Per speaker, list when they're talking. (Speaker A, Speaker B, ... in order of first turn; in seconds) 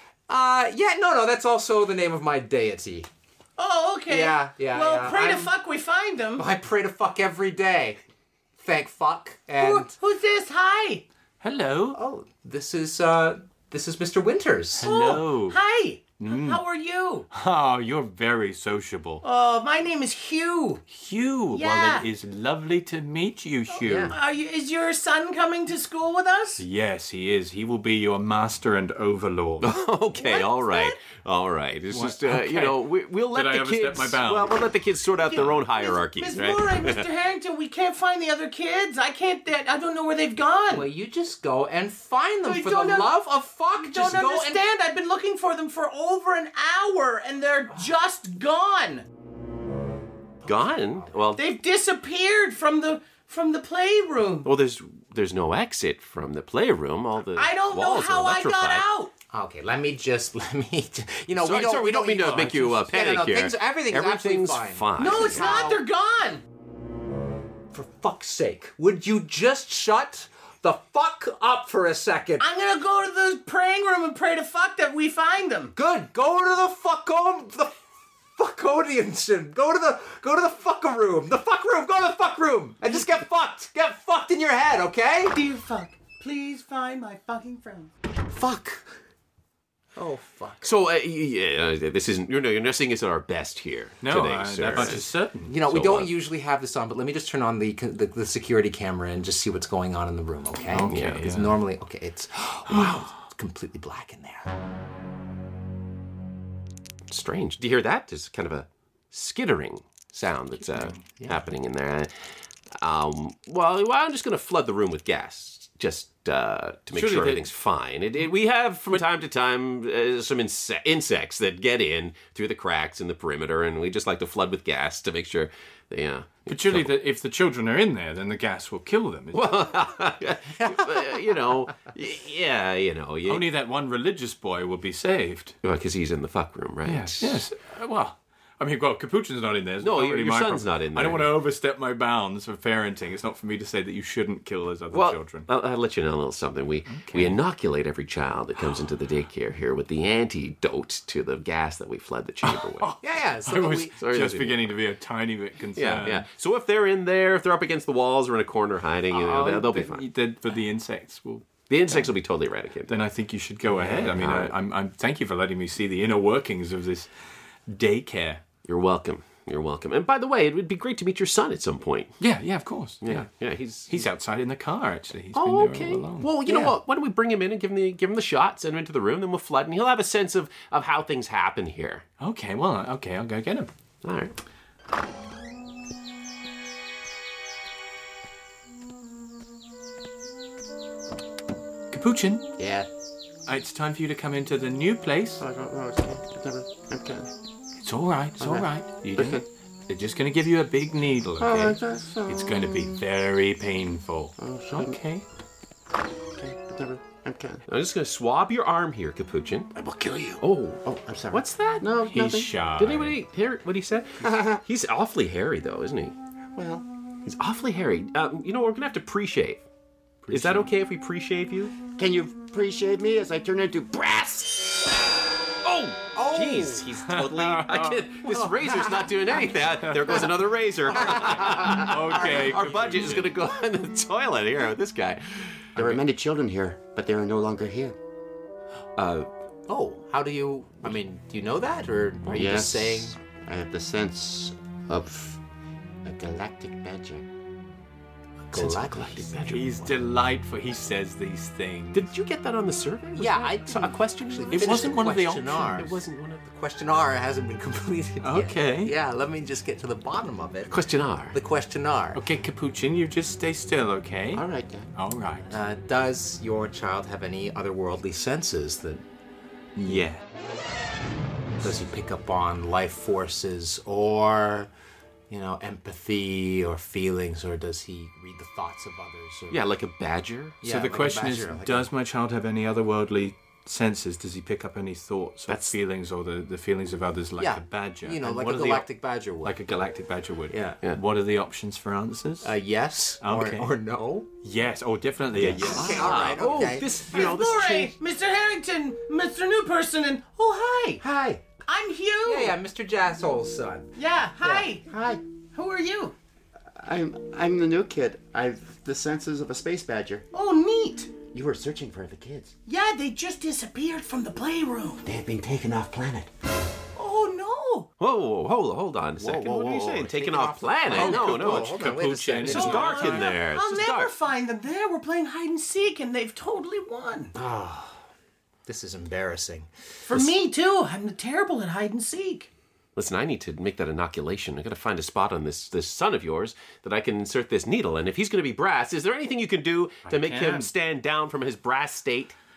Speaker A: 0.3-3.1, 4.1-5.5, 6.4-8.0, 8.6-9.9, 11.9-14.9, 23.8-24.2, 40.7-44.6, 50.5-51.1, 59.3-65.8, 67.7-72.5, 75.7-77.7, 78.4-85.3, 88.3-88.8, 90.0-90.7, 94.7-104.5, 111.2-111.5, 130.6-131.1, 153.0-153.9, 226.2-226.9, 239.7-243.2, 248.5-249.6, 253.1-262.2, 265.5-269.0, 271.6-274.7, 275.3-279.6, 280.6-281.8, 287.4-289.6, 290.5-290.8, 292.4-294.3, 295.5-297.3, 301.0-301.4, 302.2-304.7, 319.2-323.3, 327.3-327.9, 328.7-329.7
Speaker B: 3.6-6.5, 9.6-11.0, 14.8-17.3, 19.2-20.8, 21.5-22.1, 23.9-26.6, 30.1-31.0, 35.2-40.9, 42.4-43.1, 43.7-49.0, 51.3-54.5, 57.3-59.1, 65.0-66.4, 72.4-75.7, 85.3-87.9, 297.1-301.0, 301.7-302.6, 303.9-304.9, 305.5-306.1, 310.3-311.2, 312.7-315.1, 316.9-317.9, 322.5-327.3, 330.1-332.5
Speaker C: 11.4-12.0, 14.8-15.6, 16.2-16.6, 17.3-19.2, 20.9-24.1, 26.6-29.7, 31.9-34.6, 94.0-95.5, 100.7-101.6, 110.7-111.1, 116.9-117.5, 126.5-129.7, 133.2-135.6, 136.8-145.5, 146.9-147.4, 152.4-156.2, 159.1-162.1, 162.9-167.1, 167.7-168.4, 172.2-173.3, 173.9-176.7, 182.2-183.7, 191.9-192.5, 193.4-195.4, 197.8-205.2, 212.0-213.2, 220.2-220.7, 227.1-228.1, 229.8-230.3, 231.1-233.3, 249.4-252.1, 254.5-255.8, 258.2-258.9, 262.1-265.5, 269.8-270.2, 280.6-288.9, 289.4-292.6, 293.2-293.7, 294.4-296.3, 320.9-323.4, 340.1-340.7
Speaker D: 29.6-37.0, 50.4-51.4, 54.4-58.9, 61.4-65.6, 90.6-95.1, 95.6-96.1, 100.9-101.2, 107.1-126.9, 129.3-133.4, 135.6-137.4, 139.8-141.3, 144.9-152.9, 154.0-154.6, 155.8-160.1, 161.7-162.9, 163.7-164.5, 168.6-172.1, 173.0-174.0, 175.3-182.0, 184.0-184.3, 207.7-209.7, 210.4-211.9, 212.8-216.1, 217.2-219.6, 220.3-221.7, 225.6-235.9, 239.0-239.3, 248.5-249.6, 251.9-256.5, 260.7-261.4, 279.5-280.6, 295.3-297.9, 318.0-321.9, 322.4-324.1, 332.9-342.3
Speaker E: 192.6-192.9, 195.4-197.3, 198.4-199.4, 201.4-202.6, 204.4-205.0, 206.3-207.6, 209.8-212.5, 214.2-214.6, 216.5-216.9, 221.9-224.8, 235.8-237.9, 242.3-245.4, 246.0-247.2, 264.3-264.9, 304.9-305.2, 306.7-310.2, 311.3-312.6, 315.1-316.3